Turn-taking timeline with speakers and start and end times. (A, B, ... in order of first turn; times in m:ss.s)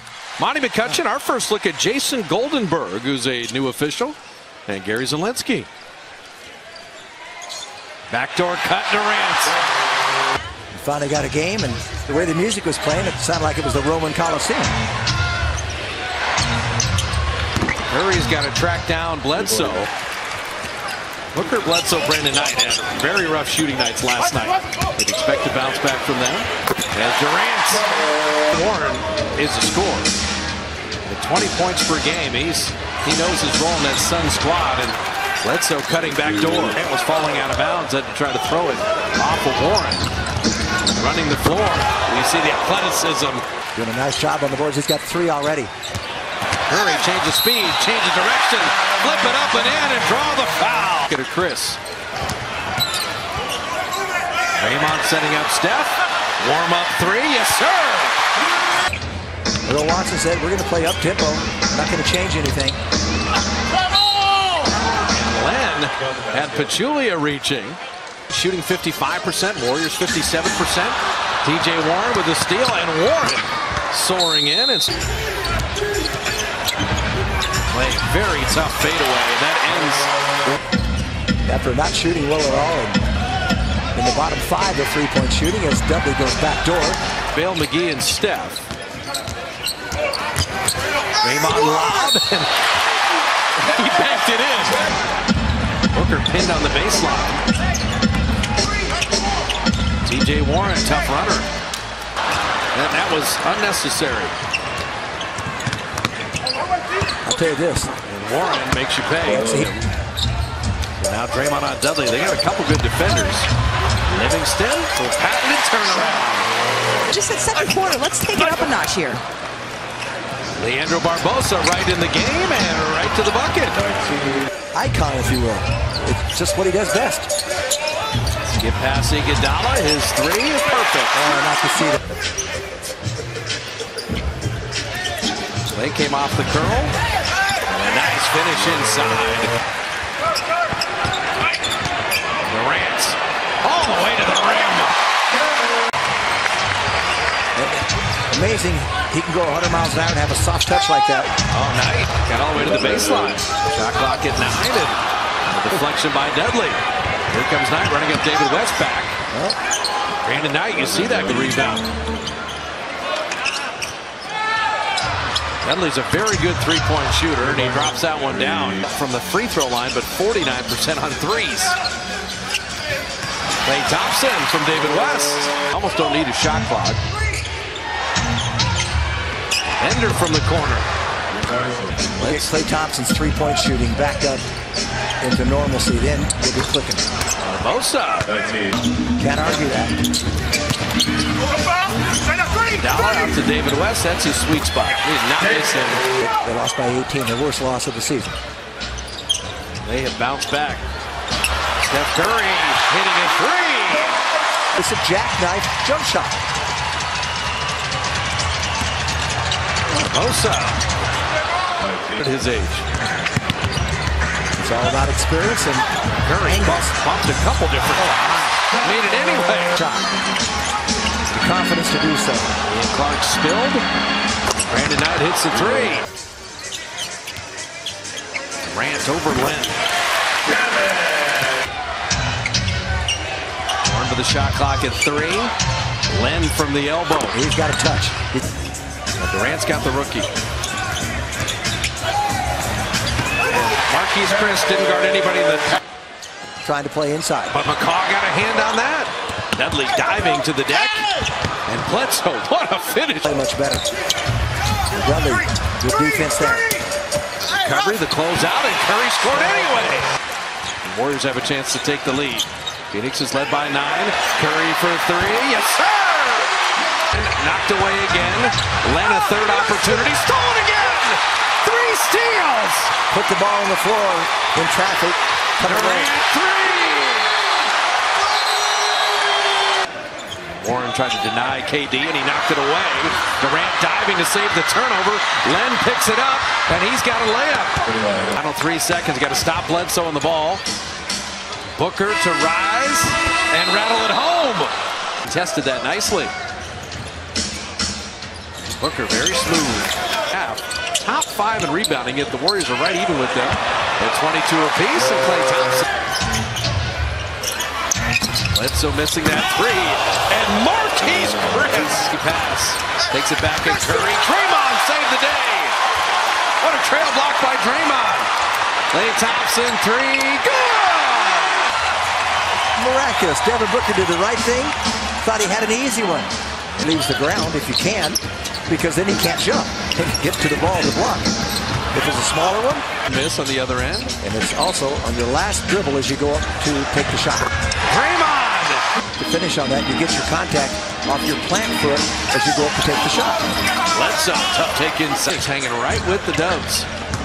0:00.4-0:04.2 A
0:04.7-0:05.7 A
0:08.1-0:09.6 A
0:10.7-0:14.7 B
0:17.9-0:19.9 A
0:21.3-0:27.8 A
0:28.5-0:30.2 A
0:31.0-0:40.1 A
0:40.9-0:43.4 A
0:43.7-0:45.7 B
0:46.7-0:51.8 A
0:54.5-0:58.2 A
0:59.7-1:02.8 B
1:04.9-1:15.0 A
1:17.7-1:20.1 A
1:21.4-1:23.0 B
1:23.9-1:27.0 B
1:27.3-1:28.7 A
1:31.2-1:32.6 A
1:33.6-1:34.8 A
1:35.9-1:37.4 A
1:40.0-1:41.5 A
1:42.7-1:44.3 A
1:47.2-1:47.9 B
1:48.0-1:49.7 A
1:49.2-1:49.7 B
1:51.0-1:53.5 A
1:54.1-1:56.5 A
1:57.1-1:59.2 C
2:00.6-2:03.8 A
2:04.7-2:07.3 B
2:08.5-2:11.1 A
2:11.1-2:12.0 B
2:15.7-2:16.9 A
2:17.7-2:19.5 A
2:22.5-2:25.0 A
2:27.5-2:31.3 B
2:31.5-2:39.2 A
2:39.3-2:39.6 B
2:40.2-2:41.8 A
2:45.6-2:51.8 A
2:53.6-2:57.0 A
2:59.8-3:00.9 A
3:02.2-3:02.4 A
3:02.2-3:04.4 B
3:05.2-3:07.0 B
3:07.4-3:08.4 A
3:09.2-3:09.9 B
3:12.7-3:16.0 A
3:16.2-3:18.3 B
3:19.8-3:20.8 A
3:21.8-3:24.2 A
3:24.7-3:26.4 B
3:29.9-3:30.8 A
3:32.0-3:32.8 A
3:34.6-3:35.9 B
3:36.2-3:39.8 A
3:36.4-3:37.0 B
3:39.7-3:40.1 B
3:41.3-3:42.5 B
3:42.6-3:43.8 A
3:44.6-3:46.0 A
3:48.6-3:49.8 A
3:53.8-3:55.5 A
3:56.1-3:57.4 A
3:57.3-3:58.4 B
3:59.2-4:00.3 A
4:03.5-4:05.8 A
4:06.6-4:07.6 B
4:07.5-4:11.0 A
4:11.6-4:13.2 A
4:13.2-4:13.8 B
4:14.9-4:16.7 B
4:17.4-4:20.1 A
4:20.8-4:26.5 A
4:27.1-4:32.9 A
4:33.1-4:36.1 B
4:35.6-4:37.4 A
4:40.5-4:50.6 A
4:51.7-4:56.3 A
4:58.8-5:05.8 A
5:08.5-5:15.8 A
5:16.6-5:18.3 A
5:18.9-5:21.8 A
5:22.8-5:31.3 B
5:31.9-5:32.8 B
5:33.0-5:34.2 A
5:34.2-5:37.5 B
5:37.8-5:38.9 A
5:39.2-5:43.5 B
5:43.9-5:46.9 A